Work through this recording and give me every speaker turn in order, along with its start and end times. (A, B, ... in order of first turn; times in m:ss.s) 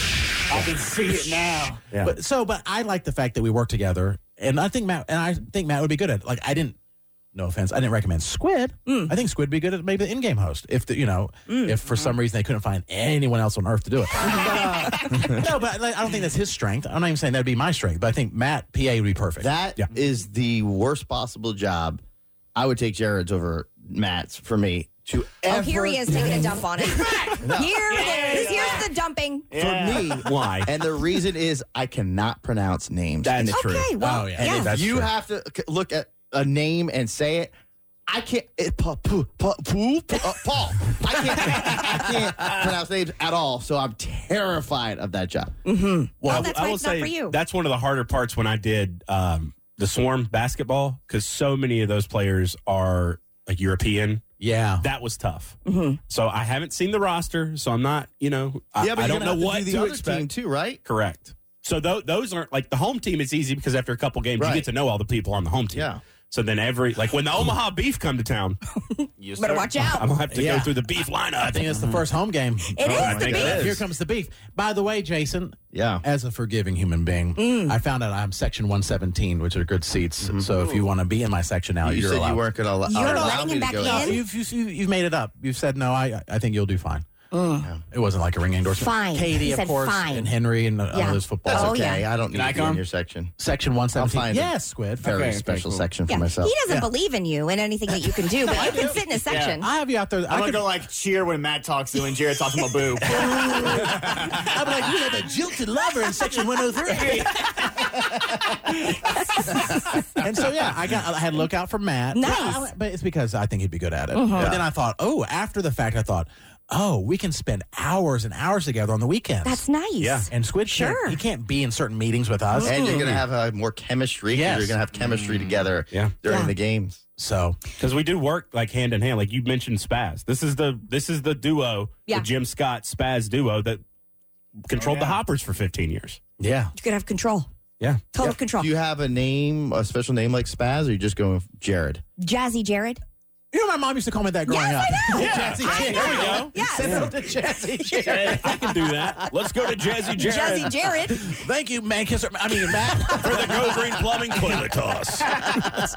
0:00.5-0:01.8 A
0:01.9-0:02.2 B
0:01.9-0:06.8 C
0:07.3-0:19.5 C
0:08.9-0:09.1 D
0:11.5-0:11.8 D
0:19.4-0:22.0 E
0:22.6-0:26.6 E
0:25.4-0:29.5 D
0:26.2-0:28.9 A
0:27.4-0:28.6 E
0:29.5-0:30.2 A
0:29.5-0:33.6 E
0:30.1-0:30.7 B
0:33.2-0:33.9 B
0:33.5-0:34.8 D
0:34.0-0:34.6 C
0:34.4-0:37.5 E
0:34.4-0:35.1 B
0:38.1-0:45.5 E
0:45.6-0:47.4 D
0:46.2-0:46.5 C
0:46.2-0:54.2 B
0:54.4-0:54.9 C
0:54.8-0:55.6 B
0:55.7-0:56.0 D
0:56.1-1:00.3 B
0:58.8-1:00.8 E
1:00.8-1:08.6 B
1:04.4-1:04.7 E
1:05.7-1:06.0 E
1:08.9-1:10.1 D
1:09.2-1:09.8 A
1:10.0-1:11.8 B
1:10.3-1:10.8 C
1:11.4-1:27.1 C
1:12.7-1:13.8 D
1:12.8-1:13.8 E
1:12.9-1:13.8 B
1:15.7-1:16.0 E
1:17.4-1:17.8 D
1:20.2-1:20.5 E
1:21.8-1:24.2 E
1:22.9-1:24.2 D
1:27.3-1:27.7 D
1:27.9-1:31.8 C
1:28.8-1:30.3 D
1:30.9-1:32.1 D
1:31.5-1:33.3 E
1:32.3-1:32.8 A
1:33.4-1:35.2 C
1:33.9-1:36.5 E
1:35.0-1:35.9 A
1:36.1-1:39.7 D
1:38.0-1:40.7 C
1:39.3-1:39.6 A
1:40.3-1:44.4 A
1:43.1-1:47.4 C
1:46.9-1:47.9 A
1:48.7-1:49.0 A
1:48.9-1:50.0 D
1:50.2-1:59.6 C
1:52.1-1:52.7 D
1:54.1-1:54.6 D
1:54.4-1:54.6 E
1:59.4-2:01.2 D
2:00.0-2:00.3 B
2:00.3-2:03.2 C
2:02.5-2:03.1 D
2:02.6-2:07.0 E
2:04.3-2:04.8 C
2:04.9-2:05.7 A
2:06.2-2:06.5 D
2:07.2-2:07.6 C
2:07.8-2:13.8 B
2:14.7-2:16.2 B
2:14.7-2:15.2 A
2:16.4-2:16.7 C
2:16.8-2:17.5 D
2:17.8-2:18.1 B
2:18.1-2:18.7 D
2:18.2-2:22.0 E
2:22.2-2:23.0 D
2:23.5-2:29.2 C
2:24.5-2:27.1 D
2:25.1-2:27.1 B
2:28.0-2:30.8 B
2:30.2-2:31.4 D
2:31.1-2:34.6 C
2:33.2-2:35.4 B